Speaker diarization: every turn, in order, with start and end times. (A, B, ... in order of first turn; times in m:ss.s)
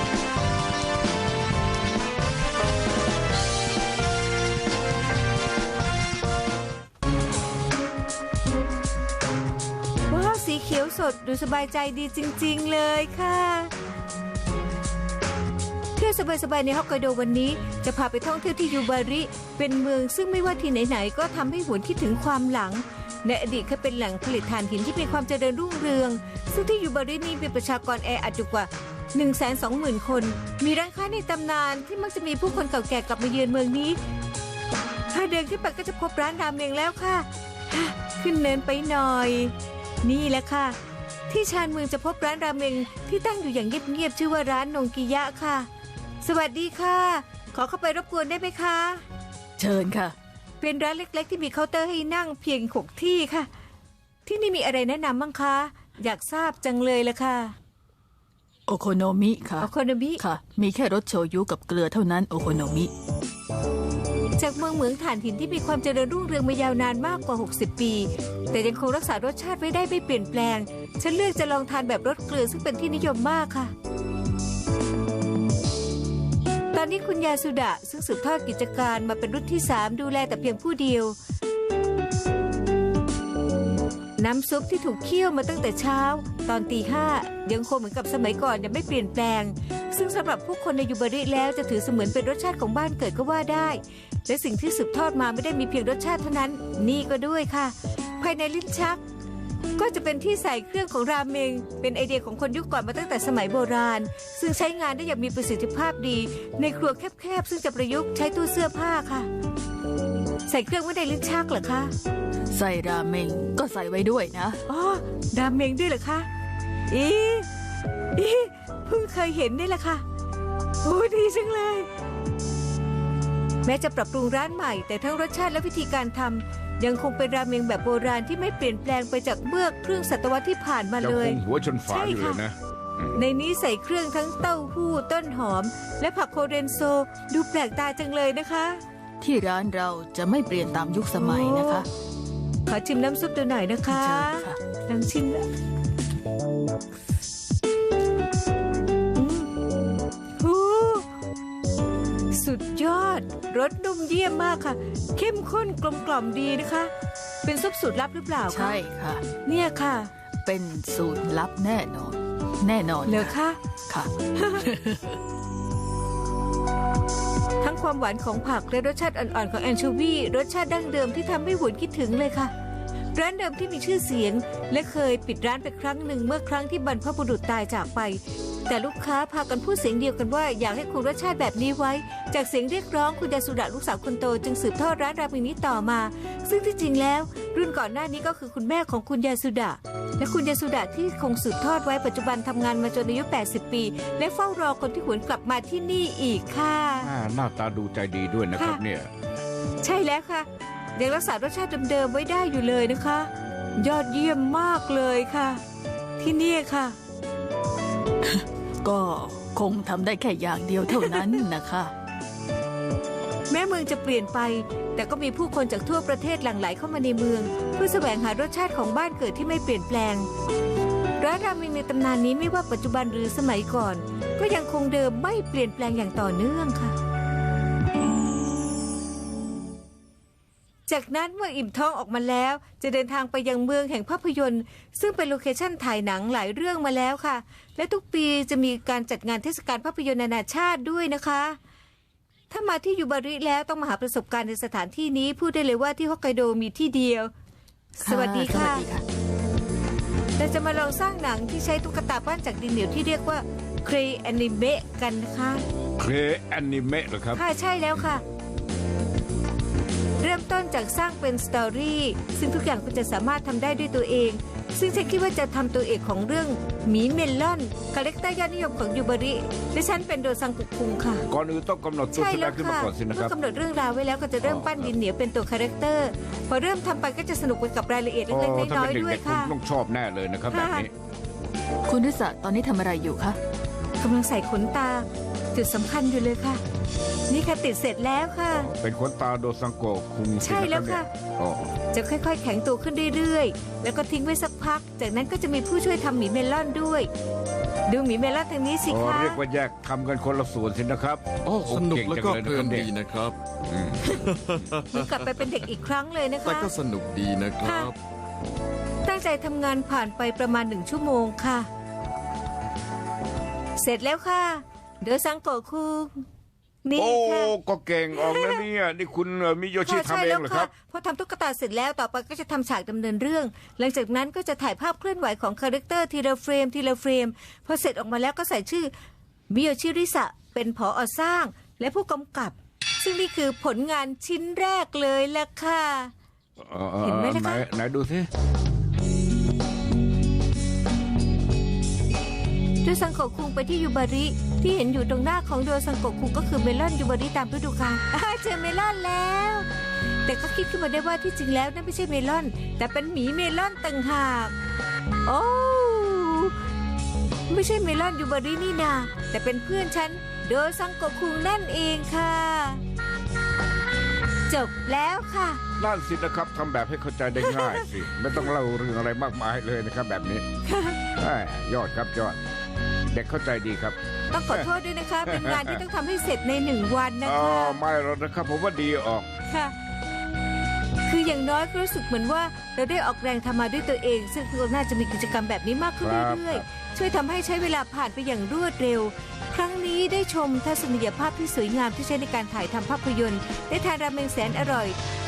0:10.1-0:13.7 A
0:16.0-0:34.0 A
0:35.1-0:40.8 A
0:41.3-0:45.7 A
0:46.2-0:49.0 A
0:49.6-0:50.1 B
0:50.6-0:53.5 A
0:54.2-0:57.5 A
0:58.7-1:02.9 B
0:59.6-1:00.2 A
1:04.4-1:13.7 A
1:16.7-1:21.1 A
1:24.2-1:39.0 A
1:39.8-1:49.3 A
1:50.5-1:51.9 A
1:52.5-1:54.6 B
1:54.7-1:56.3 A
1:56.9-1:57.5 A
1:58.2-2:00.0 A
2:00.8-2:01.9 A
2:03.6-2:12.4 A
2:11.0-2:13.2 C
2:13.2-2:18.8 A
2:19.2-2:21.9 B
2:21.1-2:21.8 A
2:22.7-2:25.5 A
2:23.9-2:24.6 B
2:29.1-2:29.5 A
2:30.4-2:31.0 A
2:32.3-2:36.9 A
2:37.4-2:38.8 A
2:38.5-2:39.2 B
2:39.4-2:40.1 A
2:40.4-2:43.4 B
2:43.0-2:43.6 A
2:43.9-2:45.2 B
2:44.3-2:44.6 A
2:47.6-2:52.5 A
2:53.1-3:17.1 A
3:17.0-3:19.1 C
3:18.6-3:18.8 A
3:19.8-3:25.6 A
3:26.2-3:27.0 A
3:28.2-3:31.9 B
3:30.9-3:31.3 A
3:33.5-3:40.3 A
3:41.2-3:46.9 A
3:50.9-4:01.6 A
4:02.5-4:07.3 A
4:08.0-4:08.8 A
4:08.0-4:09.0 B
4:10.4-4:15.6 A
4:16.0-4:17.4 C
4:17.4-4:18.2 A
4:20.2-4:31.2 A
4:31.3-4:33.3 C
4:32.1-4:39.5 A
4:34.4-4:34.9 C
4:38.3-4:40.9 C
4:40.5-4:40.9 A
4:41.9-4:43.4 B
4:44.0-4:46.6 A
4:47.3-4:48.7 A
4:48.6-4:51.8 C
4:50.4-4:51.1 A
4:51.9-4:57.1 A
4:57.9-4:59.4 A
4:58.9-5:02.9 C
5:01.4-5:03.4 D
5:03.7-5:04.2 C
5:04.1-5:05.5 D
5:04.9-5:06.7 A
5:06.4-5:08.0 D
5:07.6-5:07.9 A
5:09.0-5:11.7 A
5:13.8-5:16.2 A
5:16.8-5:17.5 A
5:17.0-5:20.7 C
5:18.1-5:18.6 A
5:19.8-5:28.9 A
5:29.5-5:36.1 A
5:36.6-5:38.3 C
5:37.0-5:37.6 A
5:42.8-5:49.7 A
5:50.2-5:54.5 A
5:55.2-5:56.5 A
5:57.5-6:02.8 A
6:04.5-6:05.6 A
6:05.8-6:10.4 C
6:07.4-6:07.9 A
6:10.7-6:11.0 A
6:11.2-6:12.4 C
6:13.1-6:14.0 C
6:14.3-6:17.8 A
6:15.2-6:15.8 C
6:17.2-6:19.3 C
6:21.0-6:35.0 A
6:26.0-6:26.6 C